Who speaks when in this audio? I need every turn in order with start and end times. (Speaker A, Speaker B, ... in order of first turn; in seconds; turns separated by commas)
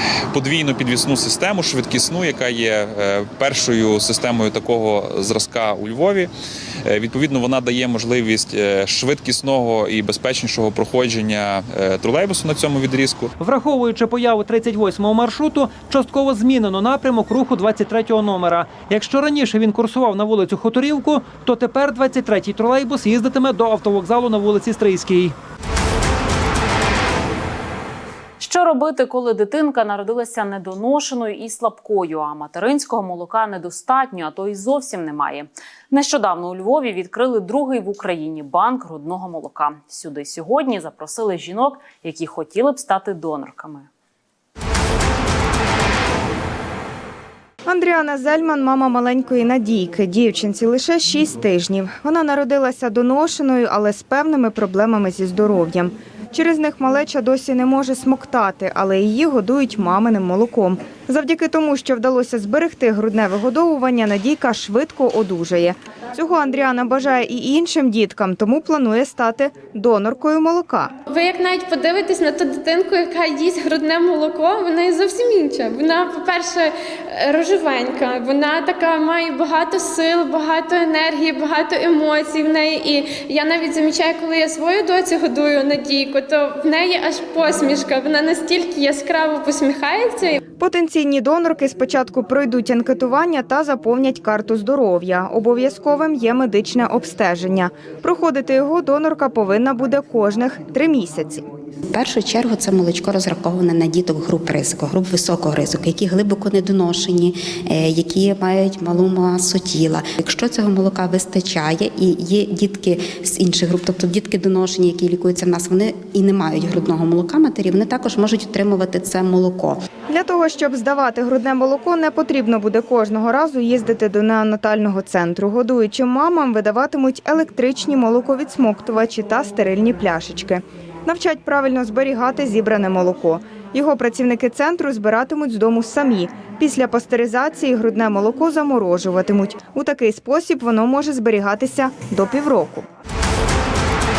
Speaker A: 0.3-6.3, Speaker A: 6.8-13.3, Speaker B: 13.4-25.3, Speaker C: 28.4-43.9, Speaker D: 47.7-70.9, Speaker E: 71.1-90.4, Speaker D: 90.6-101.4, Speaker F: 101.9-119.8, Speaker D: 120.1-142.8